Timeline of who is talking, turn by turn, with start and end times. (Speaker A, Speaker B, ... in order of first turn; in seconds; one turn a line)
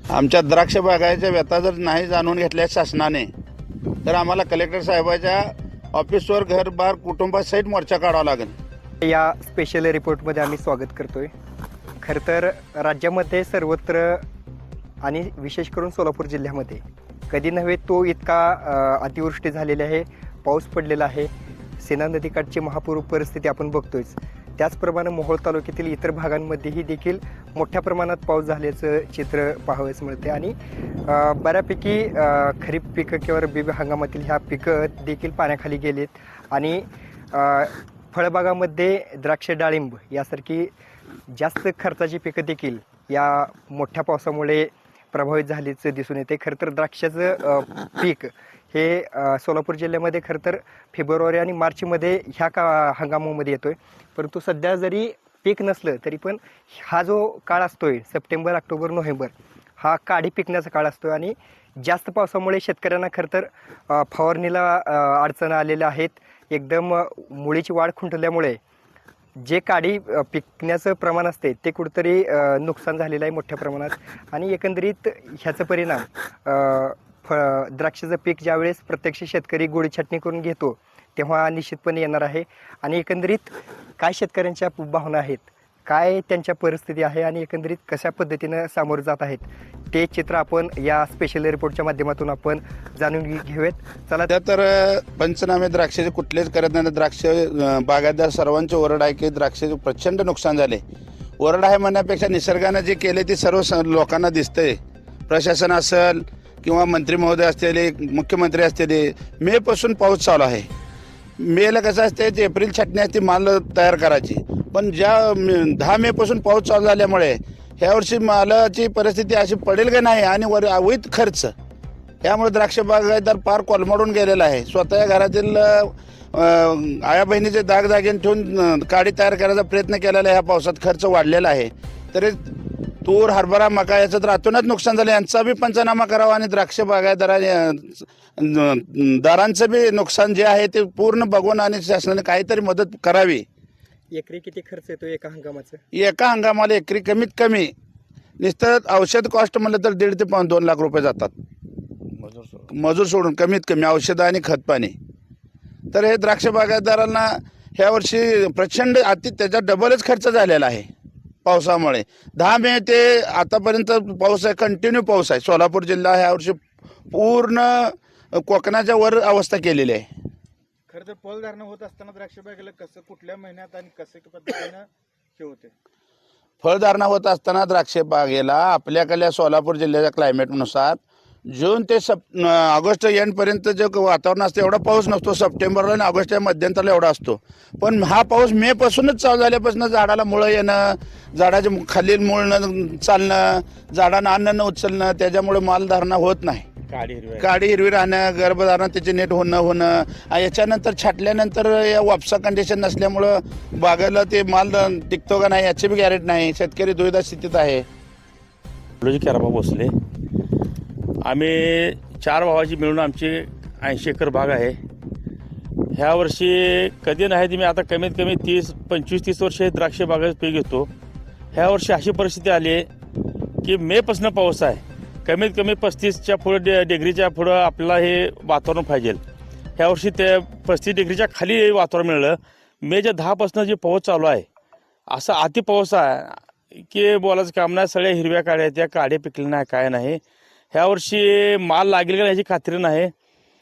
Speaker A: 0.1-3.3
Speaker A: 4.1-8.5
Speaker B: 9.0-11.3
Speaker B: 12.0-14.2
Speaker B: 15.0-40.7
Speaker B: 41.3-68.6
Speaker B: 69.4-94.3
Speaker A: 94.3-100.8
Speaker A: 101.4-110.7
Speaker A: 111.4-121.5
Speaker A: 122.2-143.4
Speaker B: 144.1-145.8
Speaker A: 145.9-147.7
Speaker A: 148.4-151.3
Speaker C: 152.2-152.7
Speaker A: 152.7-154.9
Speaker A: 155.9-160.9
Speaker A: 161.4-170.1
Speaker D: 170.9-175.7
Speaker A: 176.6-196.7
Speaker C: 196.9-197.5
Speaker A: 197.4-207.9
Speaker C: 209.0-209.9
Speaker C: 211.2-214.8
Speaker C: 215.9-220.9
Speaker C: 221.5-222.9
Speaker C: 223.6-229.2
Speaker C: 229.8-234.4
Speaker C: 235.1-240.2
Speaker C: 240.7-243.1